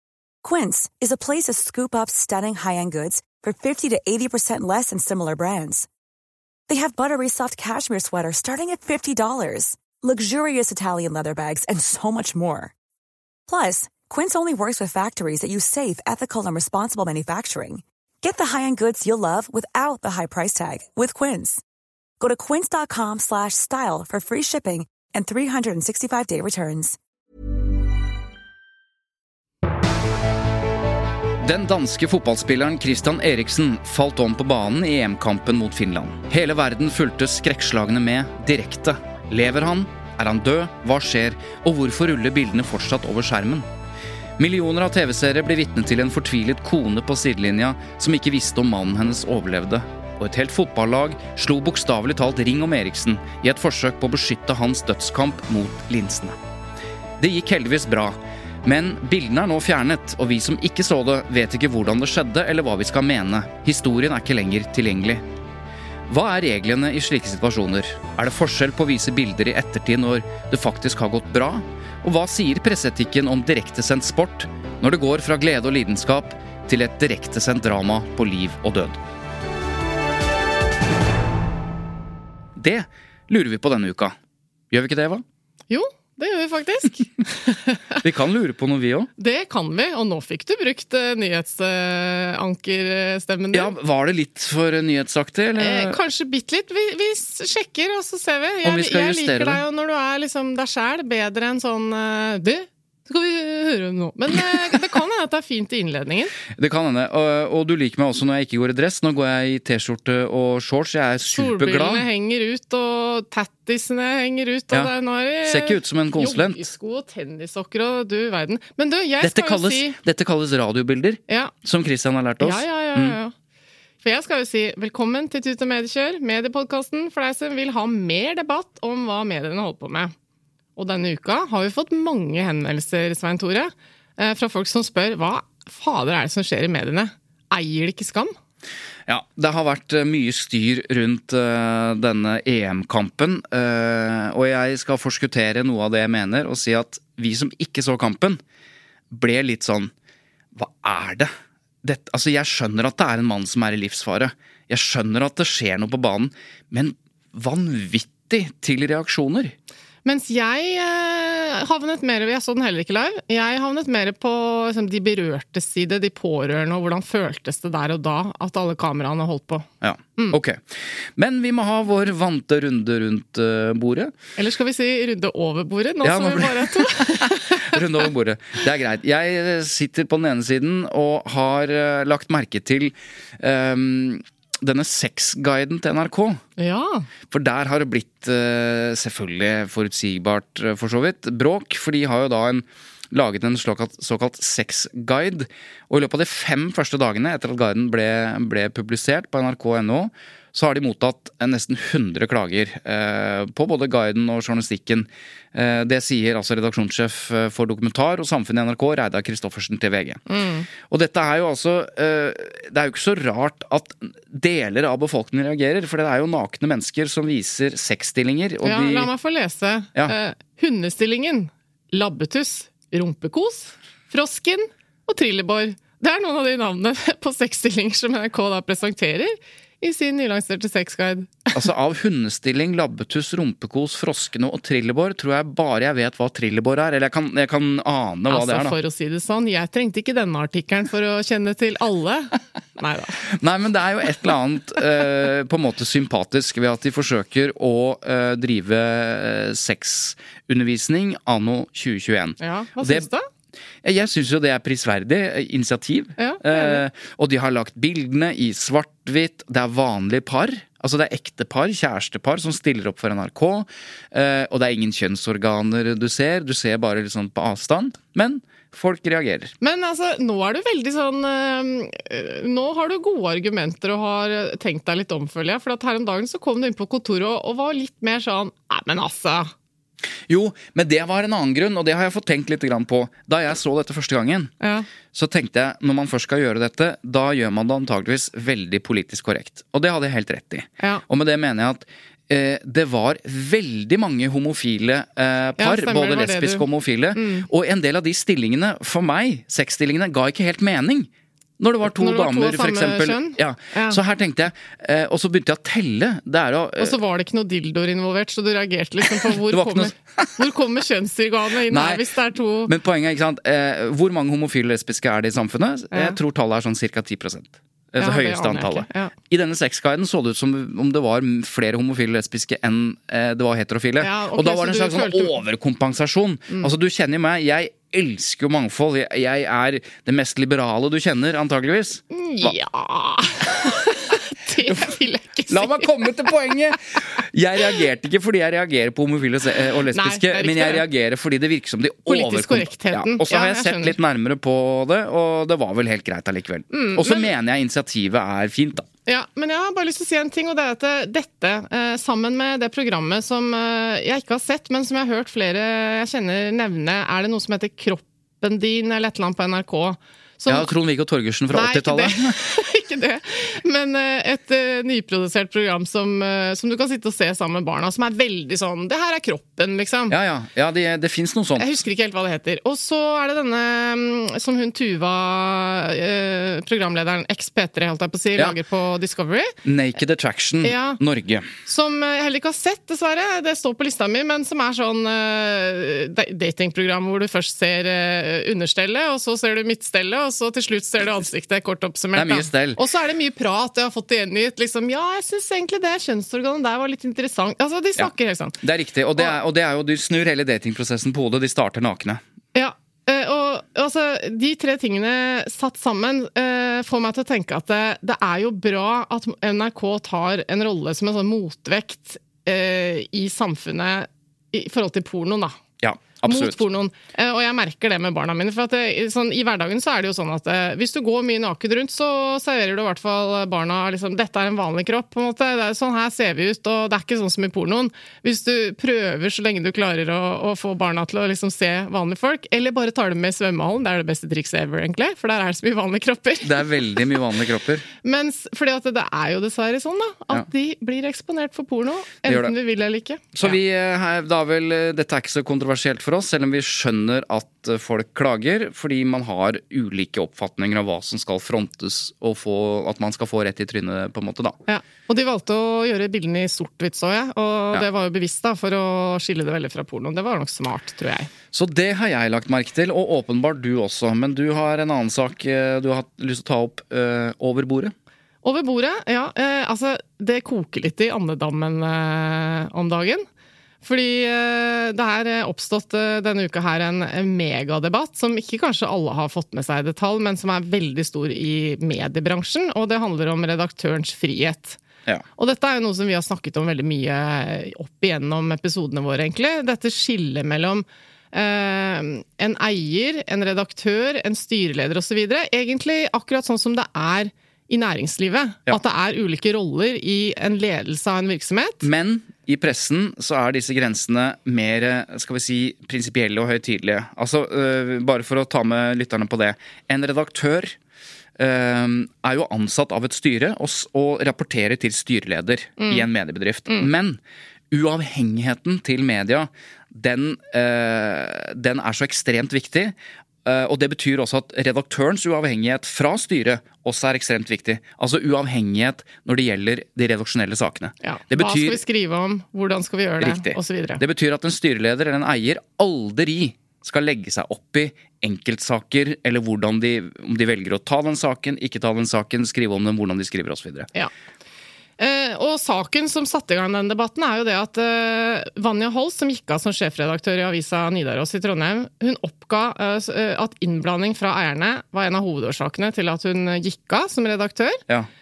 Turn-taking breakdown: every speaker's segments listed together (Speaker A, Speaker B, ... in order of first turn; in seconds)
Speaker A: 0.4-5.9, 6.7-12.7, 13.5-21.6, 22.2-27.0
Speaker B: 31.4-43.7, 44.4-56.4, 57.2-65.2, 66.1-79.0, 82.6-84.2, 84.7-85.2, 88.0-89.1, 93.5-96.0, 98.6-99.6, 106.5-112.1, 115.5-116.7, 119.2-123.2, 139.1-148.4, 149.1-149.9, 150.6-151.3, 151.8-159.6, 169.8-174.1, 176.0-186.4, 187.3-210.2, 210.9-219.1, 231.5-238.8, 243.3-253.1, 253.8-269.5, 280.3-284.5, 285.1-307.0, 309.2-310.4, 311.7-312.1, 312.6-332.6, 334.7-334.9, 335.5-348.9, 360.5-362.4, 370.1-371.7, 379.6-381.5, 392.1-392.8, 398.6-402.2, 415.8-416.6, 436.4-437.9, 442.2-442.6, 443.3-454.6, 461.5-467.9, 501.8-510.8, 511.4-517.2, 517.7-531.8, 533.2-543.9
Speaker C: 85.7-88.0, 89.2-93.7, 95.6-106.3, 111.3-120.0, 121.3-121.5, 122.4-123.3, 124.0-130.1, 130.8-138.3, 160.1-170.4, 174.4-177.8, 186.6-187.1, 210.3-210.7, 218.6-231.6, 238.3-243.2, 252.4-253.3, 256.2-256.8, 269.6-279.5, 284.6-284.9, 295.6-297.5, 301.9-304.0, 306.8-312.7, 315.9-316.2, 318.0-319.1, 324.0-325.4, 332.1-336.1, 339.9-340.8, 342.1-344.0, 346.7-347.3, 349.1-360.7, 361.5-370.2, 371.6-379.6, 380.6-381.0, 381.6-398.6, 402.6-415.6, 416.2-437.1, 438.0-443.6, 454.7-461.3, 468.4-473.3, 473.8-484.8, 485.4-501.9, 515.8-516.1, 531.0-534.0, 545.0-557.8